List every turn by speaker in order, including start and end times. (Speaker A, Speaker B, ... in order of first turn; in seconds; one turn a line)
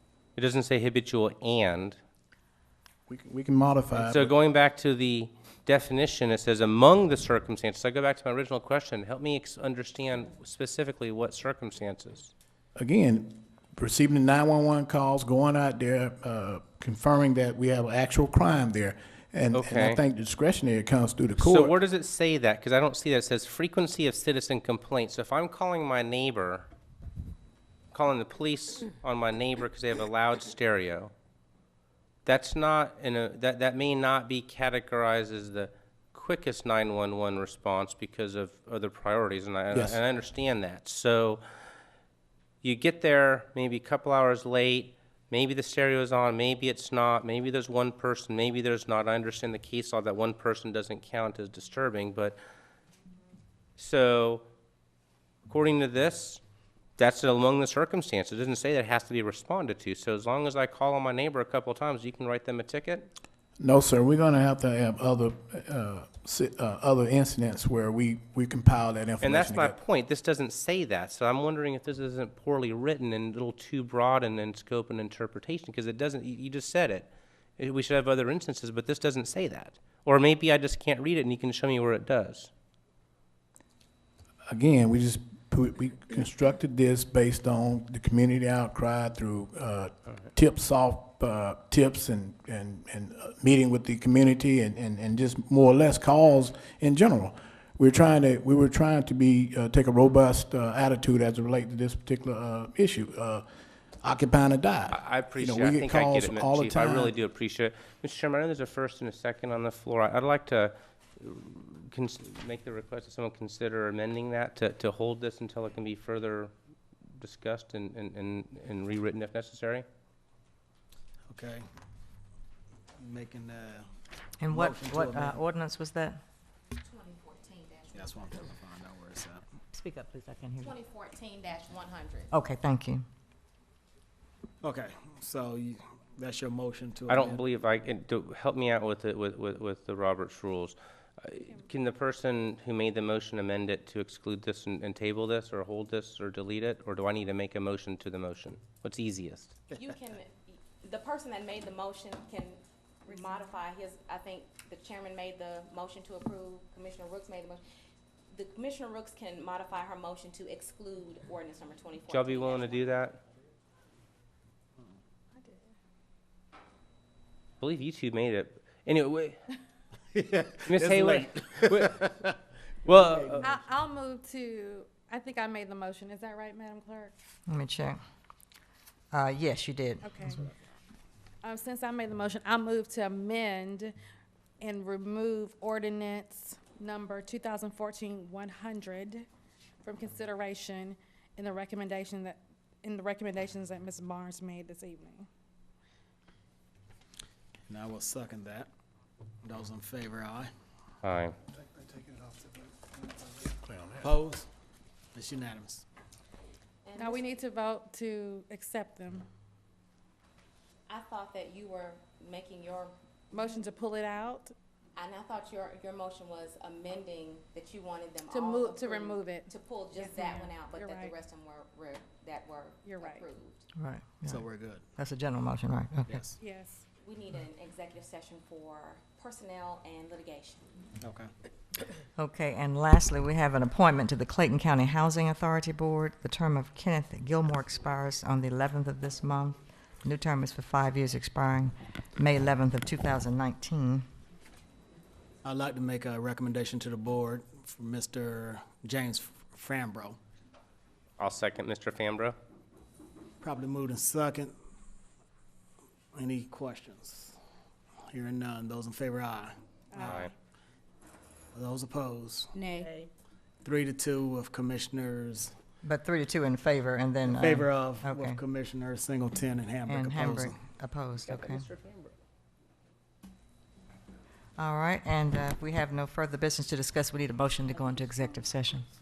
Speaker A: 0.4-2.0
Speaker B: 3.1-4.3
Speaker A: 3.9-12.3
Speaker B: 12.8-21.7
Speaker A: 19.5-20.0
Speaker A: 21.4-26.7
Speaker A: 27.9-31.1
Speaker A: 32.2-41.4
Speaker B: 39.7-40.0
Speaker A: 42.6-52.4
Speaker A: 53.8-54.5
Speaker A: 55.5-56.4
Speaker A: 57.0-63.1
Speaker B: 63.6-69.8
Speaker A: 69.2-82.5
Speaker B: 84.5-103.5
Speaker B: 104.0-107.1
Speaker A: 104.9-116.5
Speaker A: 117.2-119.9
Speaker C: 121.3-121.6
Speaker C: 123.0-123.9
Speaker D: 124.4-126.2
Speaker C: 124.5-125.4
Speaker E: 126.8-128.4
Speaker C: 127.9-129.4
Speaker D: 129.7-130.7
Speaker E: 130.6-132.3
Speaker D: 132.3-133.1
Speaker C: 134.6-137.4
Speaker A: 137.1-149.5
Speaker E: 149.7-157.6
Speaker F: 153.1-153.6
Speaker E: 158.3-162.9
Speaker A: 162.1-163.2
Speaker A: 167.6-169.4
Speaker C: 170.1-172.3
Speaker A: 170.7-172.2
Speaker A: 172.8-173.5
Speaker C: 173.0-173.5
Speaker F: 173.4-177.1
Speaker D: 177.5-178.0
Speaker D: 179.1-180.1
Speaker F: 180.0-180.4
Speaker F: 181.4-184.0
Speaker F: 184.6-189.3
Speaker F: 189.8-195.3
Speaker C: 197.7-198.7
Speaker C: 199.4-200.5
Speaker A: 201.0-201.4
Speaker C: 201.6-203.5
Speaker B: 203.6-204.1
Speaker C: 204.0-204.5
Speaker C: 205.1-205.8
Speaker E: 206.8-207.3
Speaker F: 207.0-209.3
Speaker E: 210.9-212.9
Speaker F: 213.3-214.5
Speaker E: 215.0-223.7
Speaker F: 218.3-221.2
Speaker F: 222.8-223.3
Speaker D: 223.8-224.5
Speaker C: 224.2-224.8
Speaker D: 225.0-226.2
Speaker C: 226.1-226.4
Speaker F: 226.4-226.8
Speaker E: 227.0-230.7
Speaker C: 231.0-231.3
Speaker D: 232.2-244.1
Speaker C: 245.4-250.2
Speaker A: 251.2-252.4
Speaker C: 253.4-254.5
Speaker C: 256.1-257.4
Speaker C: 258.1-260.2
Speaker F: 259.9-260.3
Speaker A: 260.0-260.3
Speaker C: 261.5-262.6
Speaker F: 262.6-262.9
Speaker C: 263.6-265.5
Speaker D: 265.8-268.4
Speaker C: 267.3-270.6
Speaker D: 269.9-271.6
Speaker A: 271.3-272.1
Speaker D: 274.6-278.9